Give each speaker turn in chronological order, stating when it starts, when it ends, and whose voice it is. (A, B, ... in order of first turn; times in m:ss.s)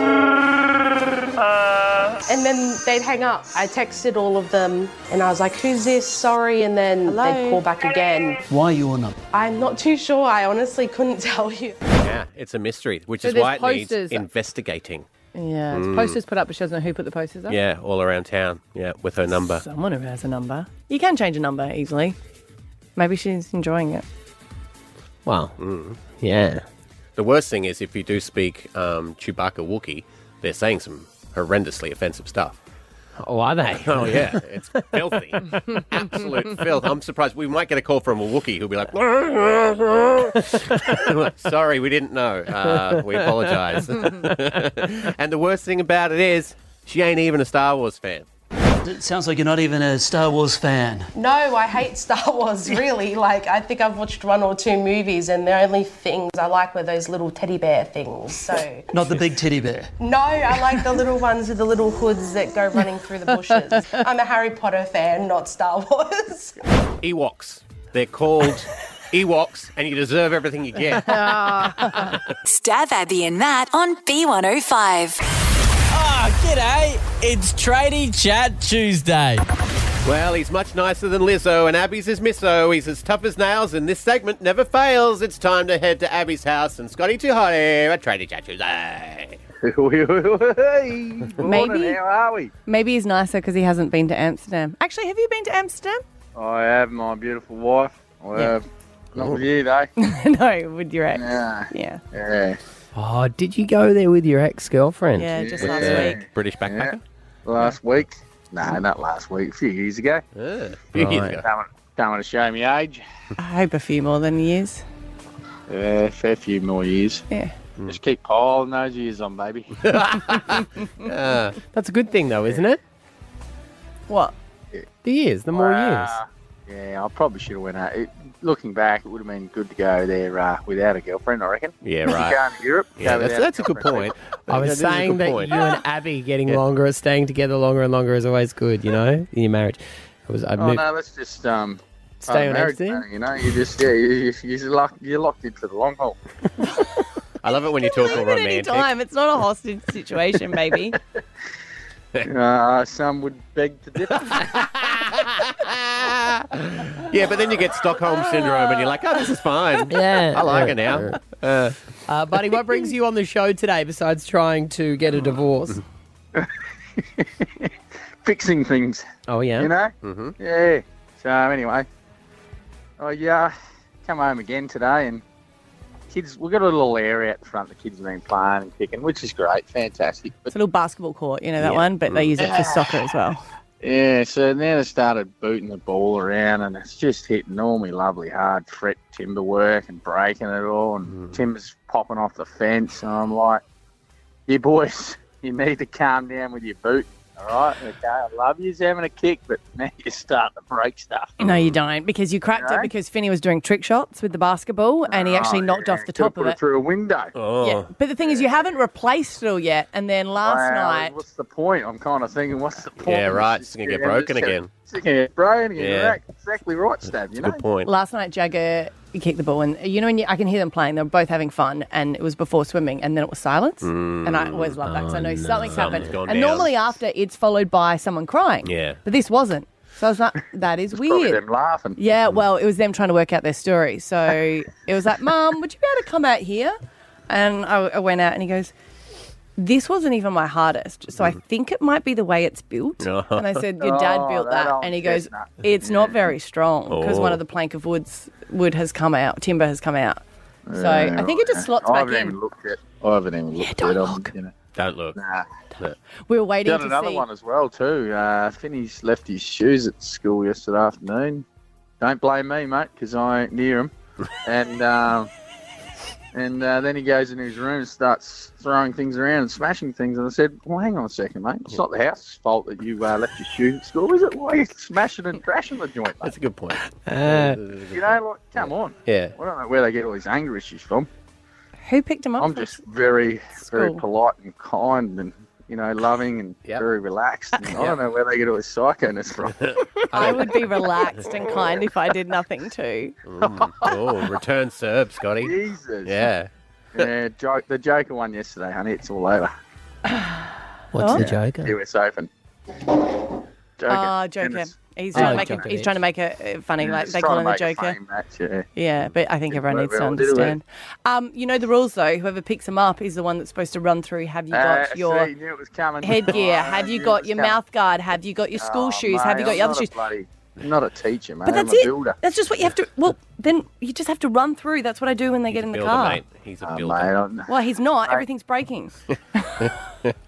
0:02.2-0:08.4 A
0:07.0-0:07.6 B
0:08.5-0:09.1 C
0:09.3-0:11.8 A
0:12.0-0:15.1 D
0:13.2-0:14.2 B
0:15.3-0:17.6 B
0:15.7-0:16.2 D
0:17.5-0:19.6 D
0:19.3-0:22.2 B
0:23.0-0:24.0 B
0:25.2-0:26.6 E
0:25.6-0:26.0 D
0:27.2-0:32.6 D
0:33.2-0:34.8 E
0:33.7-0:48.3 D
0:42.6-0:43.8 E
0:48.8-0:51.1 C
0:51.1-0:58.9 A
0:58.9-0:59.9 C
1:00.0-1:06.6 A
1:07.0-1:12.3 D
1:11.0-1:12.1 B
1:12.4-1:15.2 F
1:15.9-1:19.4 G
1:20.0-1:29.4 D
1:29.6-1:32.5 H
1:31.4-1:32.0 B
1:32.6-1:36.0 B
1:36.3-1:39.9 H
1:39.2-1:39.4 D
1:40.0-1:42.0 B
1:41.1-1:42.6 H
1:42.9-1:46.1 E
1:45.2-1:46.2 B
1:45.3-1:50.2 H
1:45.6-1:47.0 D
1:50.4-1:51.4 D
1:50.9-1:51.4 E
1:51.3-1:53.0 H
1:53.4-1:54.8 B
1:55.7-1:57.2 H
1:57.9-1:59.7 H
1:59.8-2:01.6 D
2:01.7-2:02.8 E
2:04.1-2:04.3 B
2:05.0-2:06.2 E
2:05.5-2:14.1 H
2:11.8-2:12.4 D
2:13.0-2:15.7 D
2:14.5-2:20.8 E
2:20.6-2:26.2 H
2:22.2-2:23.0 E
2:27.4-2:28.8 D
2:27.5-2:31.0 B
2:32.2-2:34.6 H
2:34.2-2:41.8 D
2:39.9-2:41.2 E
2:42.1-2:45.8 E
2:46.3-2:47.7 H
2:48.2-2:49.0 H
2:49.3-2:49.7 E
2:49.6-2:51.8 H
2:50.0-2:50.3 D
2:53.0-2:55.2 H
2:56.1-3:00.5 H
3:00.5-3:03.4 B
3:02.1-3:02.4 D
3:02.4-3:02.8 H
3:03.8-3:13.6 H
3:11.1-3:11.4 D
3:14.5-3:21.4 H
3:21.4-3:26.6 B
3:21.4-3:21.8 D
3:22.5-3:22.9 H
3:25.1-3:27.3 H
3:27.4-3:27.9 D
3:27.6-3:31.2 B
3:28.2-3:28.5 H
3:30.4-3:37.6 H
3:33.0-3:34.7 D
3:35.8-3:36.2 D
3:37.4-3:37.9 D
3:37.8-3:51.4 B
3:43.8-3:44.8 D
3:44.8-3:46.1 E
3:45.7-3:46.7 D
3:48.6-3:49.0 D
3:50.9-3:52.0 H
3:52.0-3:56.8 B
3:57.3-3:58.7 B
3:59.6-4:10.2 B
4:03.0-4:03.6 D
4:03.8-4:06.3 H
4:06.9-4:07.4 D
4:10.7-4:14.5 H
4:10.8-4:12.4 B
4:13.8-4:14.2 B
4:14.8-4:15.2 D
4:15.2-4:15.4 H
4:16.3-4:17.2 B
4:16.6-4:21.4 H
4:22.0-4:23.9 H
4:24.4-4:25.3 H
4:26.3-4:36.3 H
4:36.2-4:39.3 D
4:37.1-4:37.6 E
4:37.9-4:41.1 H
4:41.8-4:42.8 B
4:42.4-4:49.6 H
4:43.6-4:44.0 B
4:47.7-4:48.0 D
4:49.6-4:50.9 D
4:50.1-4:53.1 B
4:53.3-4:56.5 D
4:53.4-4:54.2 H
4:55.4-4:56.1 H
4:56.9-4:59.5 H
5:00.9-5:01.8 E
5:01.0-5:01.2 B
5:01.2-5:02.3 H
5:03.8-5:05.6 H
5:03.9-5:08.0 B
5:05.1-5:05.9 E
5:06.8-5:08.7 H
5:08.7-5:15.3 B
5:09.5-5:10.6 H
5:14.5-5:17.6 H
5:16.0-5:19.9 B
5:18.6-5:22.2 H
5:21.4-5:26.2 B
5:25.5-5:27.1 D
5:26.6-5:27.5 H
5:27.5-5:28.9 B
5:29.1-5:30.2 D